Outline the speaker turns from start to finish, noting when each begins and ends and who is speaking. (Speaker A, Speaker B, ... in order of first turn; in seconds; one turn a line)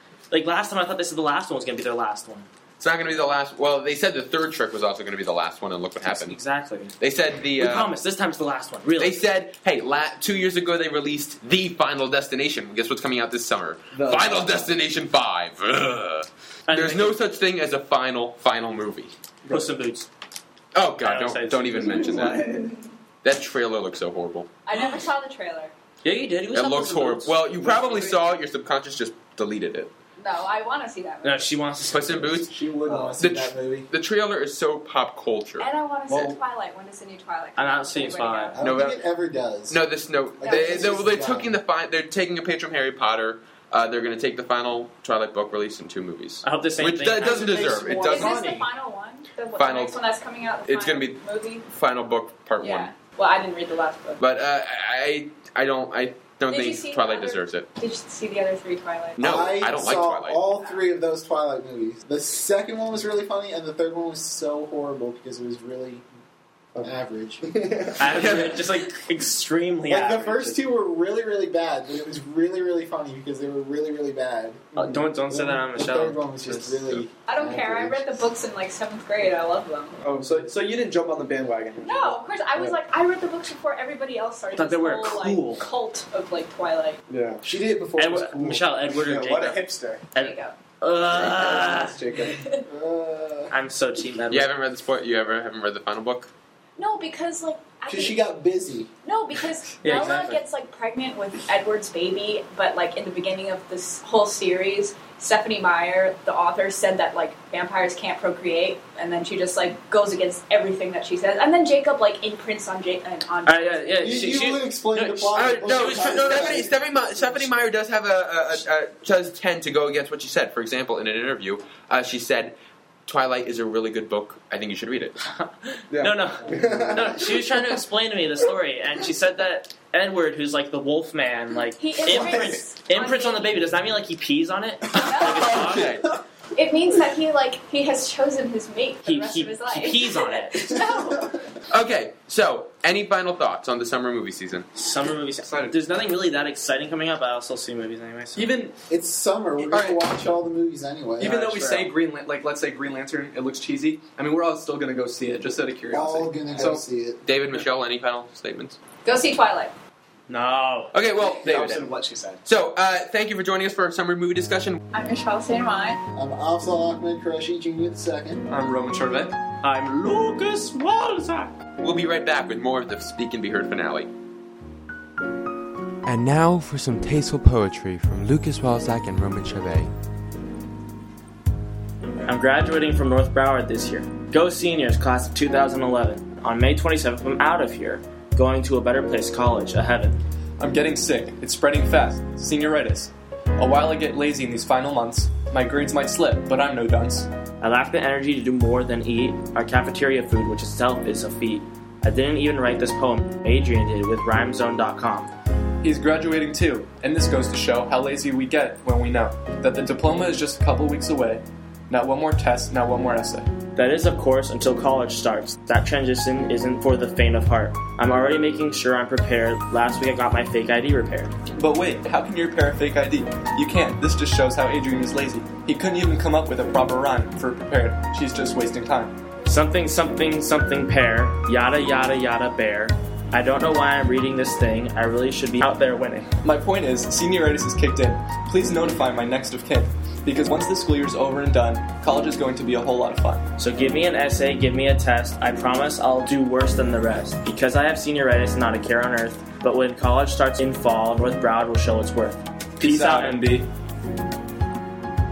Speaker A: 0.3-2.5
Speaker B: 2.8-6.4
Speaker A: 6.0-6.9
Speaker B: 7.0-7.9
Speaker A: 7.5-9.2
Speaker B: 9.0-19.1
Speaker C: 13.9-14.7
Speaker A: 16.7-17.2
Speaker A: 19.5-20.1
Speaker B: 20.8-22.4
Speaker A: 21.0-22.4
Speaker C: 22.1-22.7
Speaker B: 23.2-24.5
Speaker D: 24.7-25.7
Speaker A: 24.7-25.0
Speaker A: 26.0-27.4
Speaker B: 26.5-29.9
Speaker D: 30.2-31.5
Speaker A: 31.2-32.5
Speaker B: 31.9-32.5
Speaker E: 32.5-33.9
Speaker C: 32.9-33.2
Speaker B: 33.2-35.7
Speaker D: 35.6-38.6
Speaker E: 36.1-36.4
Speaker A: 37.6-38.6
Speaker E: 38.5-39.8
Speaker B: 38.6-39.0
Speaker B: 39.7-48.5
Speaker E: 40.4-41.6
Speaker D: 40.4-41.0
Speaker A: 46.4-48.7
Speaker D: 47.2-51.7
Speaker B: 49.6-50.0
Speaker B: 50.6-52.9
Speaker D: 52.6-54.2
Speaker B: 54.2-57.7
Speaker D: 56.5-59.3
Speaker B: 59.2-60.4
Speaker E: 59.2-66.0
Speaker D: 60.5-60.9
Speaker E: 66.8-68.6
Speaker A: 68.0-70.6
Speaker E: 69.9-74.7
Speaker A: 74.8-76.9
Speaker E: 75.3-78.1
Speaker D: 77.2-80.0
Speaker F: 80.0-82.7
Speaker D: 81.8-87.0
Speaker A: 84.6-85.7
Speaker F: 87.1-87.4
Speaker E: 87.4-90.0
Speaker A: 88.0-92.0
Speaker C: 89.1-89.5
Speaker D: 90.2-90.6
Speaker F: 91.1-92.4
Speaker D: 92.2-92.7
Speaker E: 92.7-93.5
Speaker A: 93.5-94.5
Speaker B: 94.3-96.3
Speaker D: 96.8-98.3
Speaker E: 97.9-98.9
Speaker D: 99.0-113.9
Speaker A: 99.8-100.4
Speaker A: 113.5-116.7
Speaker E: 114.0-116.7
Speaker B: 115.3-125.2
Speaker A: 125.2-135.9
Speaker E: 126.5-127.8
Speaker D: 131.8-133.6
Speaker E: 132.1-132.6
Speaker D: 134.9-135.9
Speaker B: 135.4-136.1
Speaker D: 136.6-141.4
Speaker A: 139.1-140.8
Speaker B: 141.7-144.7
Speaker A: 144.8-148.5
Speaker F: 145.4-145.8
Speaker F: 148.3-148.8
Speaker E: 148.9-151.9
Speaker F: 149.7-150.1
Speaker F: 151.2-156.8
Speaker E: 155.9-157.2
Speaker B: 157.2-158.8
Speaker D: 159.0-159.7
Speaker A: 160.3-160.9
Speaker B: 160.9-161.9
Speaker C: 161.2-162.4
Speaker B: 162.4-164.8
Speaker D: 164.9-166.0
Speaker E: 166.2-168.4
Speaker F: 168.5-169.4
Speaker A: 169.6-171.5
Speaker B: 171.8-174.1
Speaker B: 176.1-179.9
Speaker A: 182.3-190.2
Speaker F: 190.6-197.3
Speaker A: 197.6-205.3
Speaker F: 205.8-213.5
Speaker A: 213.8-221.3
Speaker F: 221.6-229.2
Speaker A: 229.5-236.3
Speaker F: 236.4-243.4
Speaker A: 243.6-253.6
Speaker F: 252.8-253.7